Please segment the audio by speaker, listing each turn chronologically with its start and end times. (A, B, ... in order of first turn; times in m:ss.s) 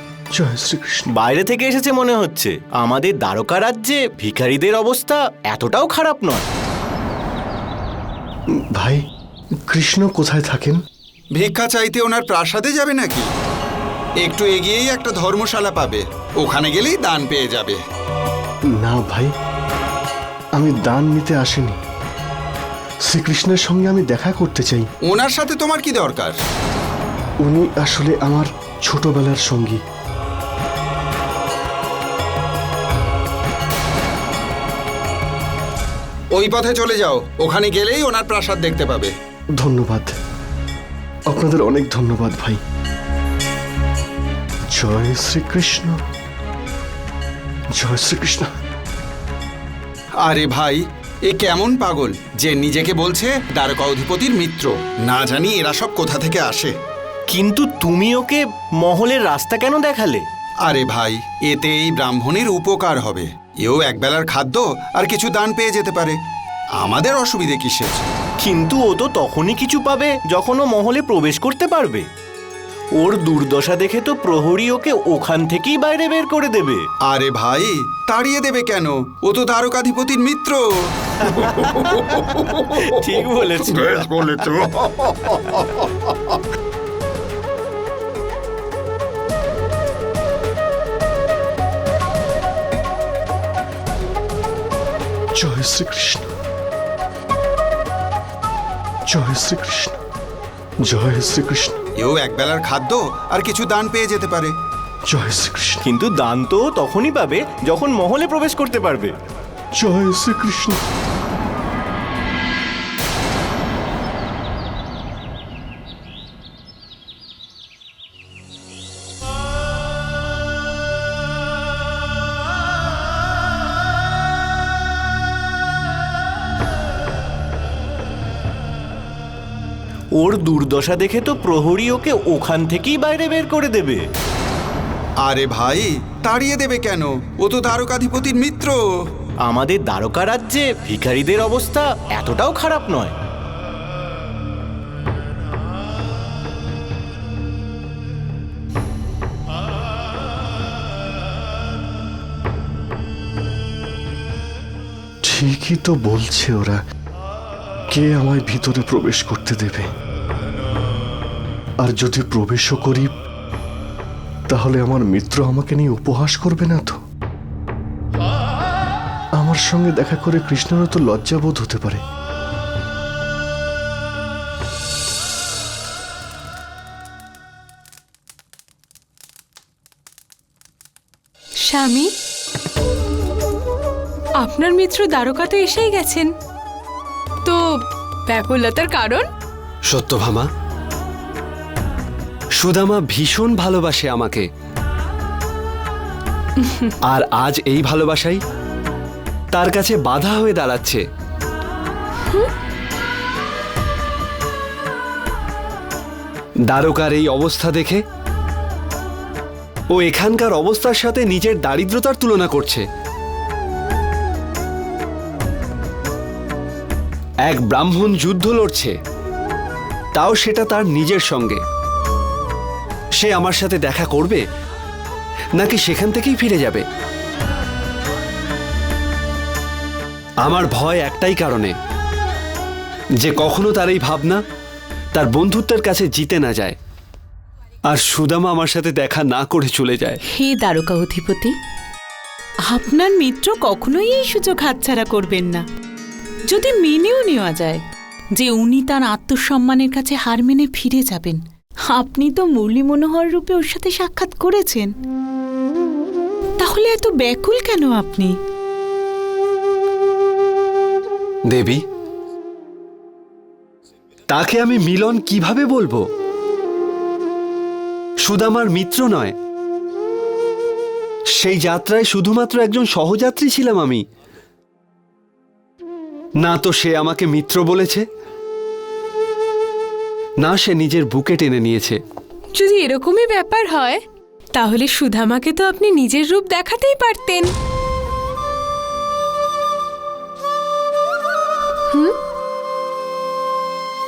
0:00.3-0:01.1 A
0:01.1-0:06.5 B
0:08.6-0:09.0 A
0:09.7-0:10.8 A
0:11.3-0:13.3 C
0:14.2-0:17.8 C
0:18.7-0:19.3 A
0:20.6-0:21.8 A
0:23.0-0:24.9 A
0:25.0-0:26.4 C
0:27.4-0:29.8 A
0:36.3-0:39.1 C
0:39.6-0:40.1 A
0:41.3-0:42.6 A
0:44.7-0:46.0 A
0:47.7-0:48.5 A
0:50.2-0:56.7 C
0:57.3-1:00.2 B
1:00.6-1:06.2 C
1:06.8-1:08.1 C
1:08.4-1:12.0 B
1:13.0-1:16.8 B
1:17.0-1:20.6 C
1:21.2-1:22.9 C
1:21.3-1:24.3 B
1:23.7-1:25.6 C
1:35.4-1:36.3 A
1:39.1-1:40.0 A
1:40.8-1:41.8 A
1:42.0-1:44.5 C
1:45.1-1:45.8 A
1:45.8-1:49.1 B
1:49.7-1:50.8 A
2:10.2-2:14.0 B
2:15.2-2:18.8 C
2:19.4-2:23.1 B
2:35.2-2:36.8 A
2:37.9-2:39.9 A
2:41.8-2:43.1 A
2:44.5-2:47.0 A
2:49.4-2:52.0 A
3:01.6-3:02.1 D
3:04.4-3:06.3 D
3:07.4-3:09.3 D
3:09.9-3:10.5 E
3:12.6-3:14.5 E
3:17.1-3:18.4 E
3:19.5-3:21.0 E
3:26.7-3:28.0 E
3:29.9-3:32.8 E
3:37.4-3:38.9 E
3:40.1-3:41.6 E
3:43.2-3:44.4 E
3:45.6-3:46.8 E
3:50.4-3:51.7 E
3:53.2-3:54.4 E
3:55.1-3:56.8 E
3:57.9-4:00.2 E
4:00.3-4:01.5 F
4:02.7-4:05.6 F
4:06.5-4:07.8 F
4:08.3-4:14.9 F
4:16.6-4:18.3 F
4:21.5-4:21.8 E
4:24.3-4:26.0 E
4:28.2-4:29.3 E
4:31.3-4:34.0 E
4:36.4-4:38.0 E
4:40.4-4:42.0 E
4:42.5-4:44.0 D
4:44.5-4:47.5 D
4:51.9-4:52.2 D